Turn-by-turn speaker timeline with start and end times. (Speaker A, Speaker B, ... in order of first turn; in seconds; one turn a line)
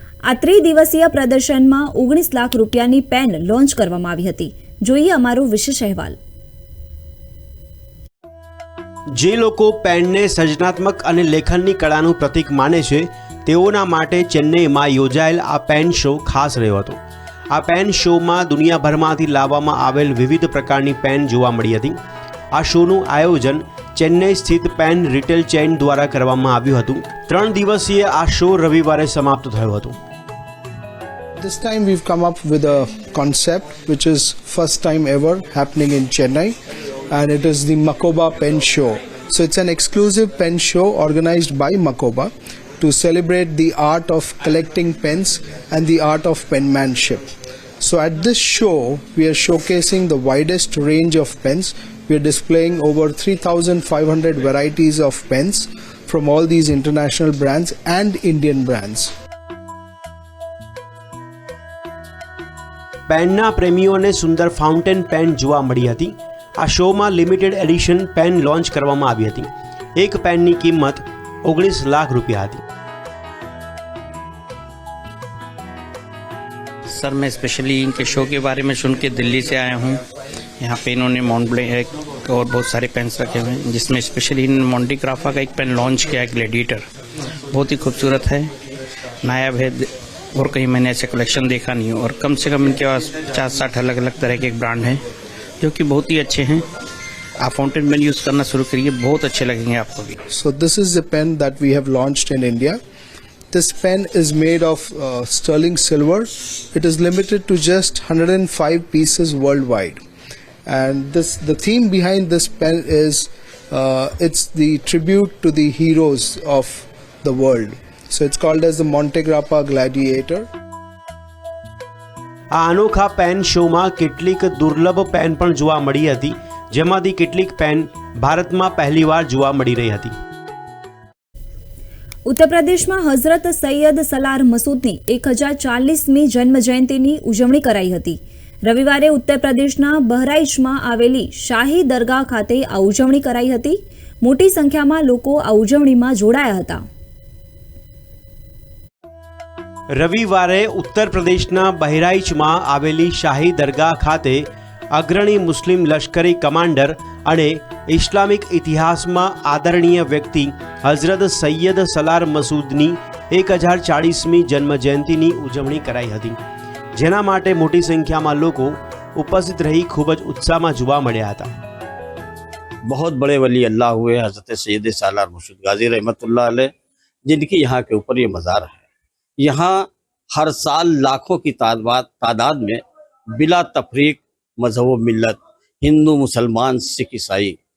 Speaker A: 0.3-6.2
Speaker B: 9.2-17.0
Speaker B: 17.5-22.0
Speaker B: 22.6-30.0
Speaker C: 31.4-36.5
Speaker C: 37.1-47.3
Speaker C: 47.8-59.1
Speaker B: 63.1-72.6
Speaker D: 77.0-80.0
Speaker D: 80.6-86.8
Speaker D: 87.5-88.5
Speaker D: 89.2-89.8
Speaker D: 90.4-95.0
Speaker D: 95.6-96.6
Speaker D: 97.4-100.2
Speaker C: 100.3-102.8
Speaker C: 103.5-110.0
Speaker C: 110.7-120.5
Speaker B: 122.5-130.1
Speaker A: 132.3-146.8
Speaker B: 149.9-166.4
Speaker B: 167.0-171.5
Speaker E: 172.9-176.7
Speaker E: 177.3-178.8
Speaker E: 179.4-182.8
Speaker E: 183.4-187.6